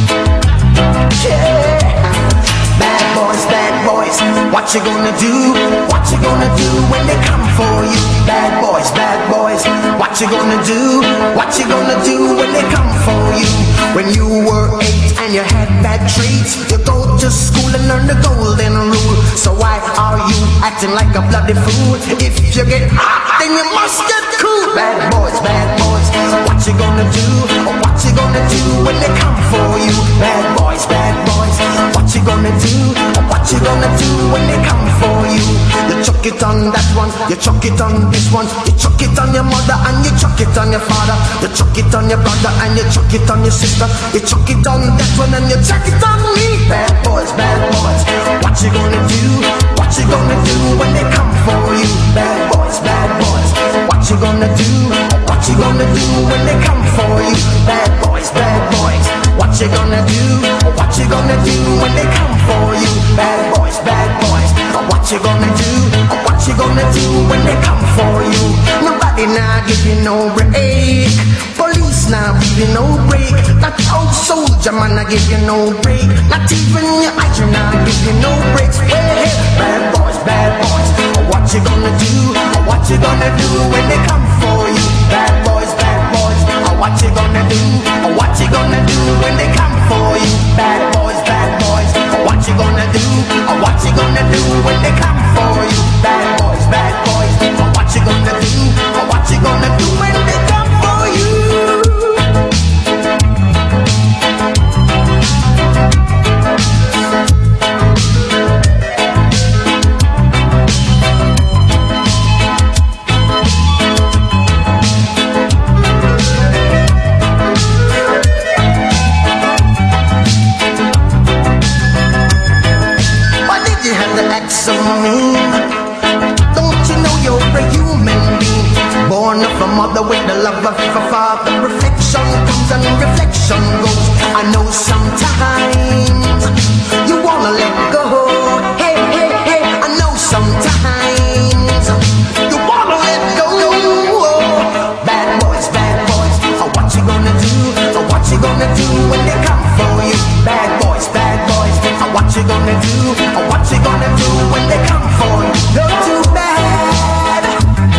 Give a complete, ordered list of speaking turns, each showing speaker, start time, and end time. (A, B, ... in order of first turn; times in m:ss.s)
0:01.1-1:42.4 A
2:03.4-2:05.9 A
2:06.4-2:37.6 A